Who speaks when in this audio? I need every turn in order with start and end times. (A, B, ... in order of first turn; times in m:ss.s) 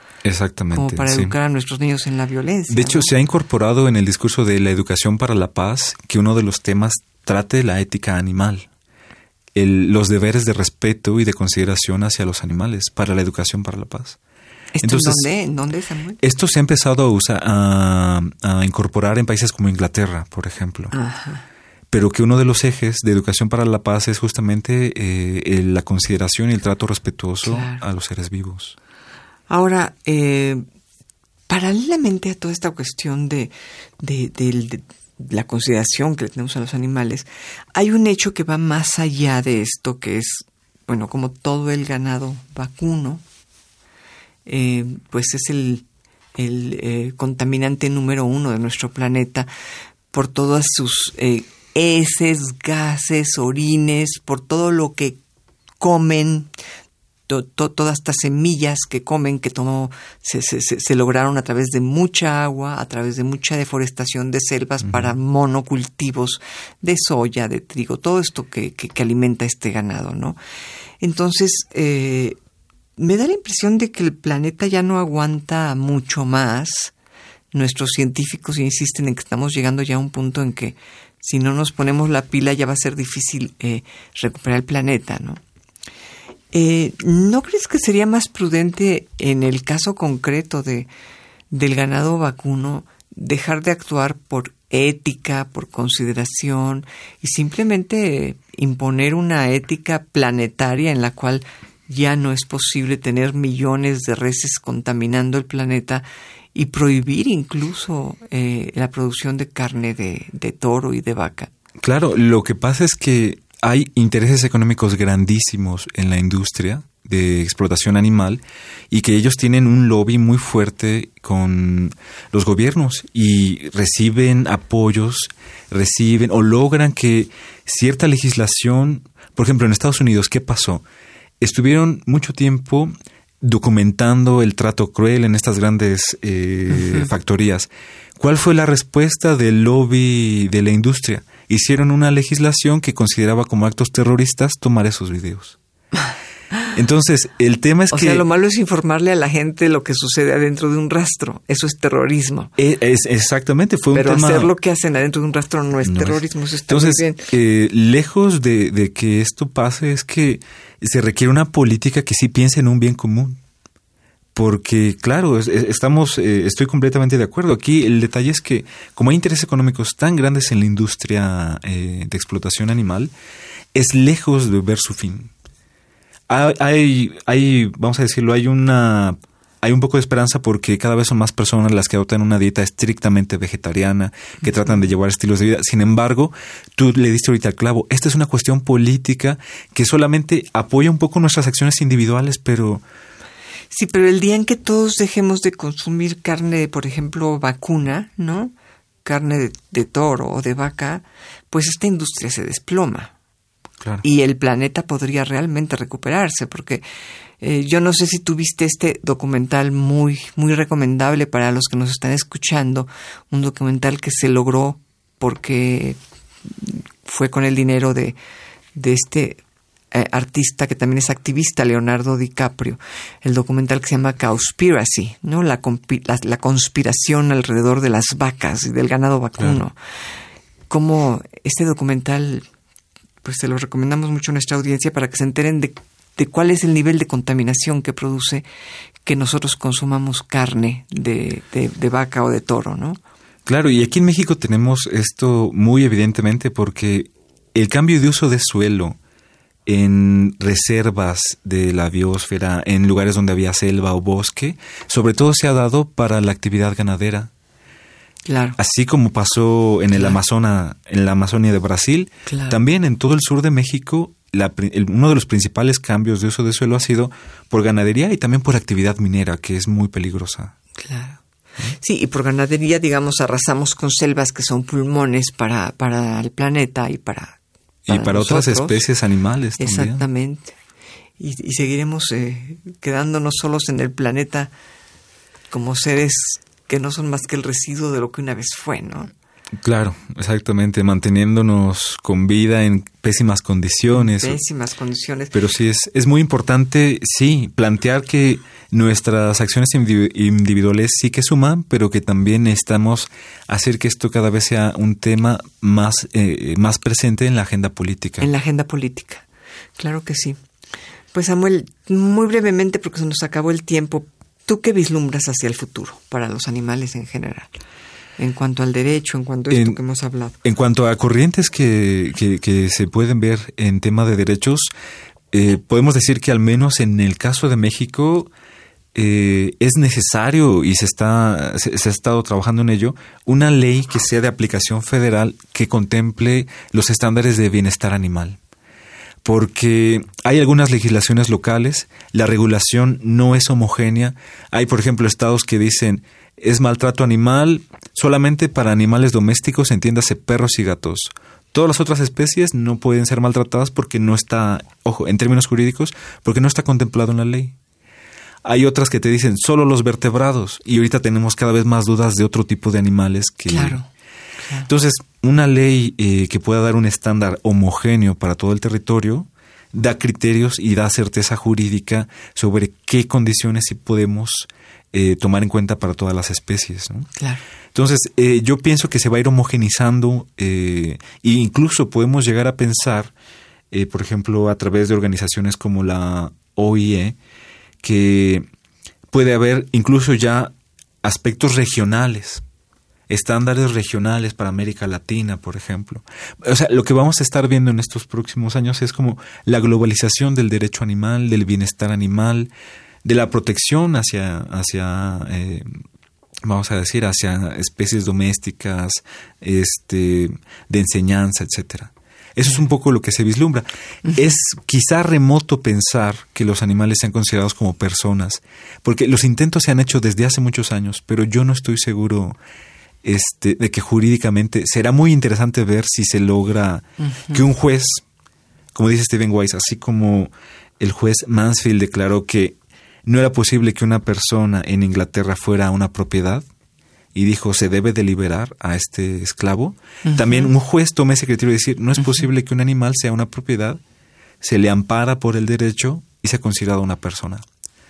0:00.2-0:01.3 A
0:00.7-0:03.1 B
0:02.7-0:08.7 A
0:09.5-0:14.2 A
0:14.7-0:16.2 B
0:14.8-0:15.2 A
0:16.2-0:20.9 A
0:20.9-0:21.4 B
0:21.9-0:28.8 A
0:27.4-0:27.8 B
0:29.5-0:30.6 B
0:31.5-0:43.2 B
0:44.4-0:45.8 B
0:46.4-0:49.5 B
0:50.1-0:55.2 B
0:55.8-0:56.5 B
0:57.3-1:10.4 B
1:04.8-1:05.1 A
1:11.0-1:12.4 B
1:13.0-1:16.9 B
1:17.5-1:25.4 B
1:26.5-1:30.9 B
1:31.5-1:51.5 B
1:51.8-2:10.8 A
2:11.4-2:25.6 A
2:26.7-2:28.2 A
2:27.9-2:32.5 B
2:32.6-2:34.5 A
2:33.9-2:37.3 B
2:35.8-2:43.4 A
2:44.3-2:53.1 A
2:53.7-2:55.3 A
2:56.3-3:12.8 A
3:13.7-3:18.5 B
3:19.0-3:23.1 B
3:24.0-3:26.8 B
3:27.4-3:38.2 B
3:38.7-3:39.4 B
3:39.9-3:49.8 B
3:50.7-3:52.4 B
3:53.2-3:58.4 B
3:59.0-4:03.0 B
4:03.4-4:09.0 A
4:09.6-4:17.3 A
4:18.3-4:18.6 B
4:18.6-4:30.5 A
4:22.3-4:22.6 B
4:30.8-4:31.2 B
4:31.8-4:37.4 B
4:37.9-4:40.0 A
4:37.9-4:38.8 B
4:39.6-4:40.5 B
4:41.2-4:44.5 B
4:45.5-4:49.1 B
4:49.6-4:54.4 A
4:53.9-4:55.3 B
4:55.3-5:08.3 A
5:08.2-5:09.2 B
5:09.8-5:10.4 B
5:11.1-5:17.5 B
5:18.2-5:20.4 B
5:19.5-5:19.8 A
5:20.4-5:24.7 A
5:25.3-5:28.3 A
5:28.9-5:38.4 A
5:39.2-5:57.5 A
5:58.4-6:03.8 A
6:03.5-6:03.8 B
6:04.4-6:04.7 B
6:04.7-6:17.1 A
6:17.2-6:17.4 B
6:17.7-6:23.1 A
6:23.7-6:27.2 A
6:27.8-6:28.4 A
6:29.1-6:30.5 A
6:31.0-6:32.4 A
6:33.1-6:42.5 A
6:43.0-6:45.6 A
6:46.4-7:02.4 A
7:03.0-7:08.0 A
7:07.0-7:07.4 B
7:08.7-7:16.4 A
7:17.1-7:23.8 A
7:20.0-7:20.5 B
7:24.4-7:27.4 A